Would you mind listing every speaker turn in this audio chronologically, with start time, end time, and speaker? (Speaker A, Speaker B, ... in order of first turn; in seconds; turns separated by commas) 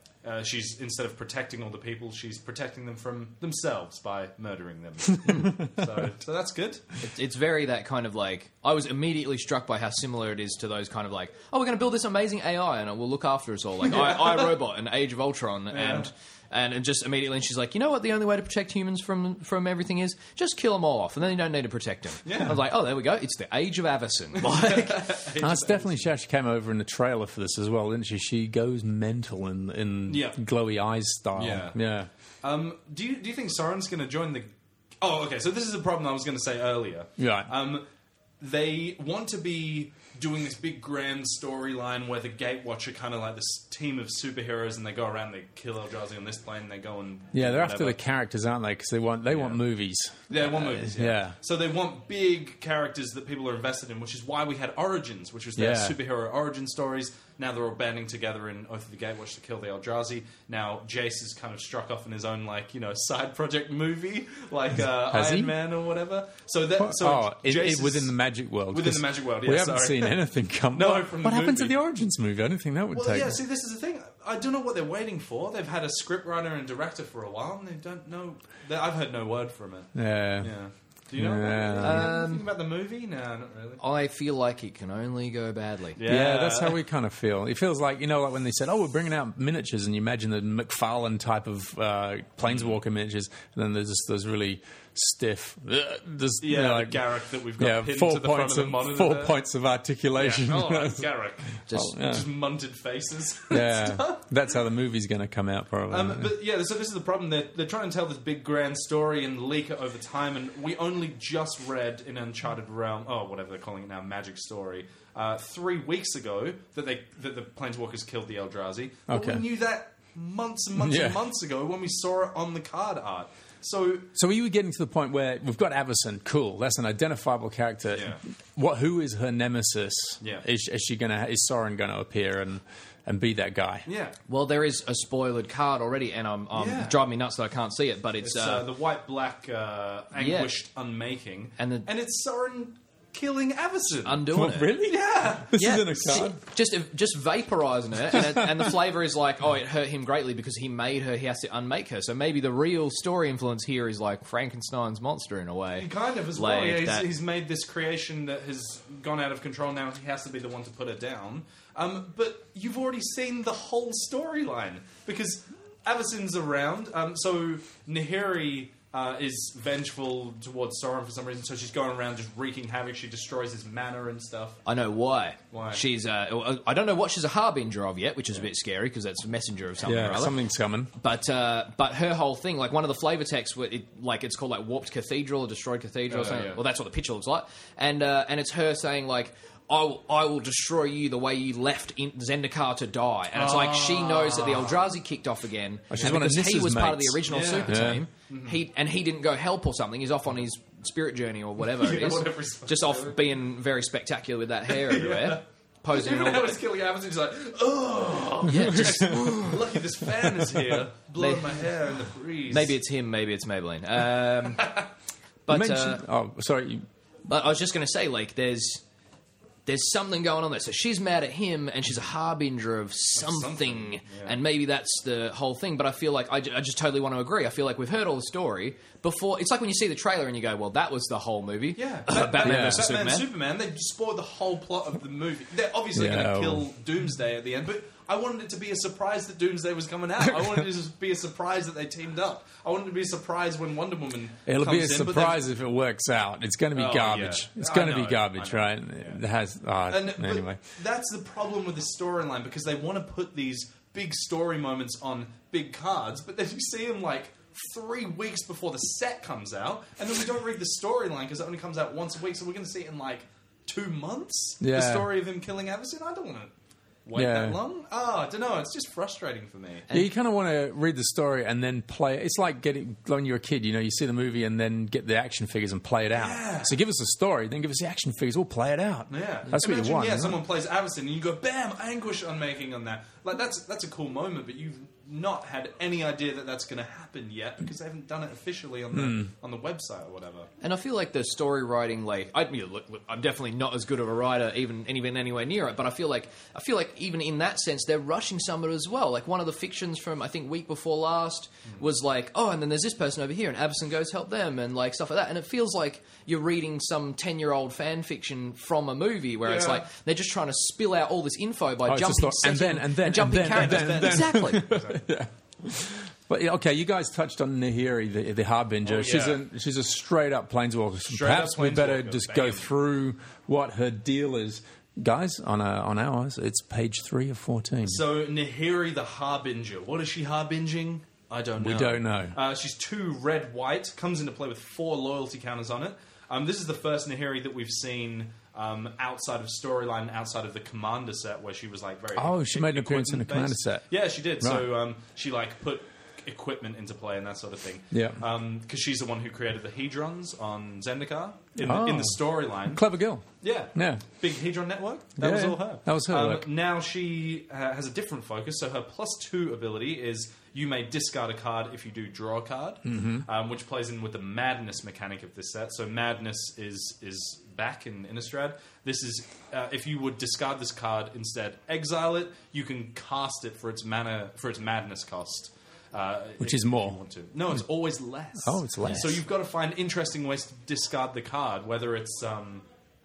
Speaker A: 0.2-6.9, Speaker B: 7.0-25.1, Speaker A: 13.9-14.5, Speaker A: 15.7-16.1, Speaker A: 22.2-22.6, Speaker A: 24.4-26.1, Speaker C: 25.4-32.1, Speaker A: 30.1-30.4, Speaker A: 31.4-31.8, Speaker A: 32.4-37.9, Speaker C: 37.2-37.5, Speaker A: 38.4-48.0, Speaker C: 47.3-51.4, Speaker A: 49.3-49.6, Speaker A: 50.3-68.1, Speaker C: 55.6-56.0, Speaker C: 65.1-65.6, Speaker C: 66.8-73.4, Speaker A: 68.7-71.8, Speaker A: 72.9-83.8, Speaker C: 80.0-80.5, Speaker C: 81.2-82.2, Speaker B: 81.8-82.5, Speaker B: 83.8-86.0, Speaker A: 86.0-86.8, Speaker C: 86.0-97.0, Speaker A: 92.5-92.8, Speaker A: 96.4-99.4, Speaker C: 97.6-101.1, Speaker A: 100.2-104.2, Speaker B: 101.7-101.9, Speaker C: 101.7-102.3, Speaker C: 103.5-106.3, Speaker A: 105.9-124.1, Speaker C: 119.1-119.4, Speaker C: 120.8-121.2, Speaker C: 124.2-133.9, Speaker A: 127.9-128.2, Speaker A: 133.9-134.2, Speaker B: 134.3-138.7, Speaker A: 136.5-137.0, Speaker A: 138.2-145.7, Speaker B: 140.2-140.5, Speaker B: 141.6-141.9, Speaker B: 144.1-144.8, Speaker C: 144.3-146.4, Speaker B: 145.5-157.1, Speaker A: 155.8-174.6, Speaker B: 174.7-180.4, Speaker A: 175.5-175.8, Speaker C: 179.8-180.9, Speaker B: 181.0-206.6, Speaker A: 186.1-186.6, Speaker A: 193.3-194.8, Speaker C: 195.9-198.0, Speaker A: 197.3-198.6, Speaker A: 201.7-203.4, Speaker A: 204.7-212.8, Speaker B: 208.5-209.6, Speaker C: 208.5-209.4, Speaker C: 210.2-210.8, Speaker B: 211.2-211.7, Speaker B: 212.5-214.8, Speaker B: 215.5-216.0, Speaker C: 215.5-216.9, Speaker B: 217.3-218.8, Speaker B: 219.7-233.3, Speaker A: 223.2-224.4, Speaker A: 231.8-245.5, Speaker C: 232.4-232.9, Speaker C: 235.9-236.7, Speaker C: 240.2-240.6, Speaker C: 244.5-250.6, Speaker A: 246.8-249.2, Speaker A: 249.9-266.5, Speaker C: 264.6-265.1, Speaker A: 267.1-269.9, Speaker C: 267.1-267.6, Speaker C: 269.9-280.4, Speaker A: 276.1-276.8, Speaker A: 279.1-290.5, Speaker C: 288.9-289.3, Speaker B: 290.6-314.7, Speaker A: 309.4-309.9, Speaker C: 311.9-328.0, Speaker A: 313.4-315.0, Speaker A: 318.9-319.4, Speaker A: 321.1-322.7, Speaker A: 327.9-352.8, Speaker C: 331.6-332.4, Speaker C: 342.2-343.9, Speaker C: 344.4-344.7, Speaker C: 347.9-348.2, Speaker C: 351.6-354.1, Speaker A: 353.4-382.6, Speaker C: 355.2-356.5, Speaker C: 362.9-363.3, Speaker C: 376.4-377.0, Speaker C: 378.4-379.2